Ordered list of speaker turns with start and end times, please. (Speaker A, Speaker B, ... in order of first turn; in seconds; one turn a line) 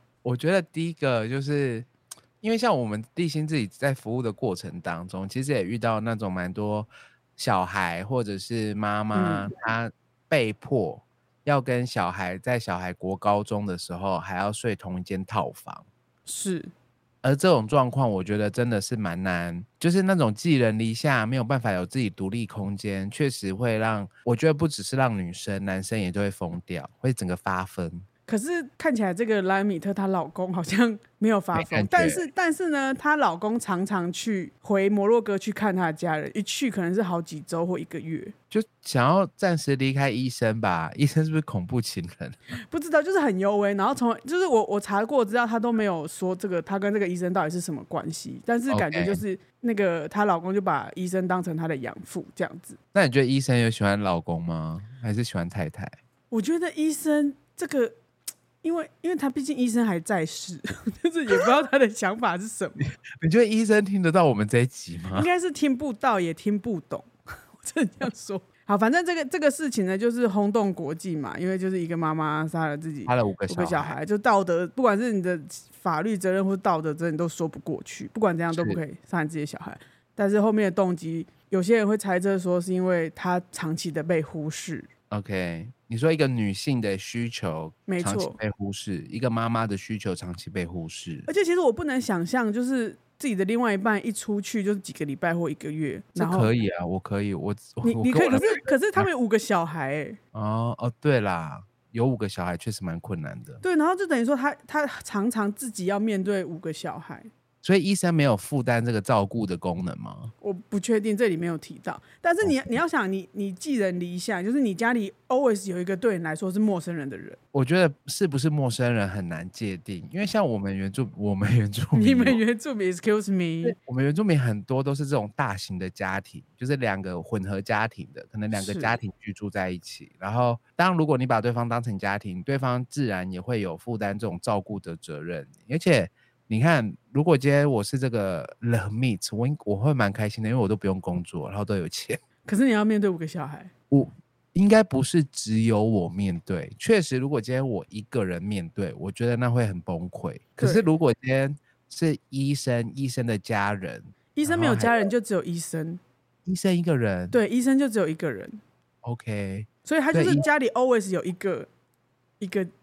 Speaker A: 0.2-1.9
Speaker A: 2.4-15.8
Speaker B: 9.1-9.5
Speaker B: 16.3-16.7
Speaker A: 17.2-28.0
Speaker B: 28.3-38.3
Speaker A: 31.5-32.3
Speaker A: 38.5-42.5
Speaker B: 42.5-52.8
Speaker A: 48.7-49.2
Speaker A: 52.9-56.0
Speaker B: 56.3-57.9
Speaker B: 58.6-62.9
Speaker A: 62.9-65.3
Speaker B: 65.1-84.9
Speaker A: 73.0-74.0
Speaker A: 78.5-78.8
Speaker A: 85.1-91.3
Speaker B: 87.9-88.4
Speaker B: 91.3-96.5
Speaker A: 96.2-99.1
Speaker B: 97.8-100.2
Speaker A: 100.3-103.6
Speaker B: 103.6-107.3
Speaker A: 107.6-110.3
Speaker B: 110.4-117.4
Speaker A: 112.4-112.7
Speaker A: 117.5-122.4
Speaker B: 121.9-123.8
Speaker A: 123.6-142.2
Speaker B: 128.5-129.0
Speaker B: 142.4-143.7
Speaker A: 143.9-155.0
Speaker B: 150.6-150.8
Speaker B: 154.3-156.0
Speaker A: 156.4-157.4
Speaker B: 157.3-158.6
Speaker A: 159.0-160.4
Speaker B: 159.8-161.7
Speaker B: 162.4-162.7